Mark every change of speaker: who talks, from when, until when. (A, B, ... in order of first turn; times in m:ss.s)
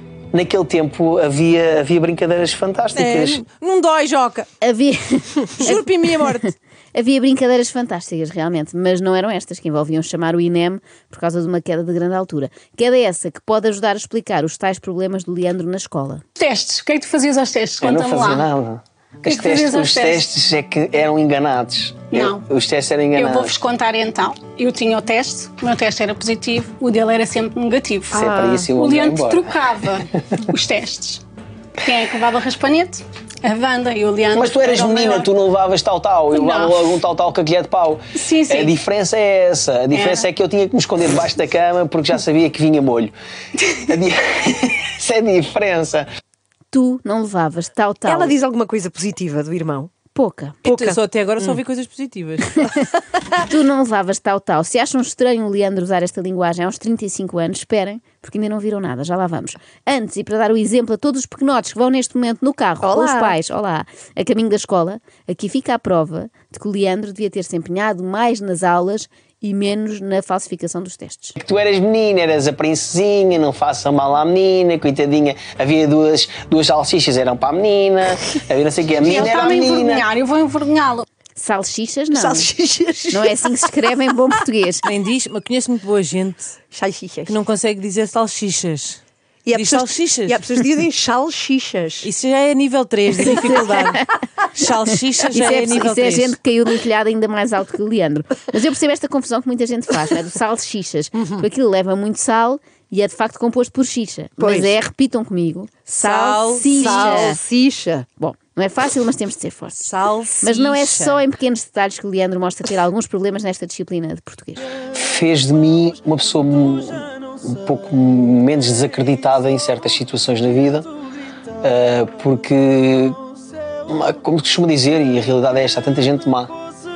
0:00.3-0:03.4 A
0:03.0-0:04.5 B
0:04.6-0:16.2 C
0:05.6-0:06.5 B
0:16.4-0:18.5 D
0:17.8-0:23.6 A
0:19.2-0:20.3 D
0:22.1-0:22.4 D
0:23.2-0:28.2 D
0:28.1-0:29.5 A
0:28.2-0:28.7 E
0:28.7-0:31.2 D
0:31.8-0:35.3 D
0:34.3-0:43.1 A
0:36.3-0:36.8 D
0:38.2-0:38.8 D
0:39.9-0:40.3 D
0:43.7-0:46.1 A
0:46.7-0:48.4 C
0:48.0-0:49.9 E
0:50.1-0:50.6 C
0:50.6-0:52.7 B
0:50.7-0:51.6 E
0:53.4-1:11.4 C
1:02.8-1:03.4 E
1:11.4-1:20.0 A
1:19.0-1:21.1 D
1:21.4-1:22.5 C
1:22.1-1:23.5 E
1:23.1-1:24.9 C
1:24.9-1:26.6 B
1:26.7-1:27.4 E
1:27.3-1:29.0 B
1:29.5-1:32.1 E
1:29.5-1:30.7 B
1:32.0-1:36.4 B
1:35.3-1:47.4 C
1:44.4-1:44.7 E
1:46.0-1:47.3 B
1:46.8-1:48.1 E
1:48.2-1:54.7 C
1:49.8-1:51.2 B
1:54.9-2:00.9 A
2:01.6-2:03.2 A
2:03.9-2:06.5 A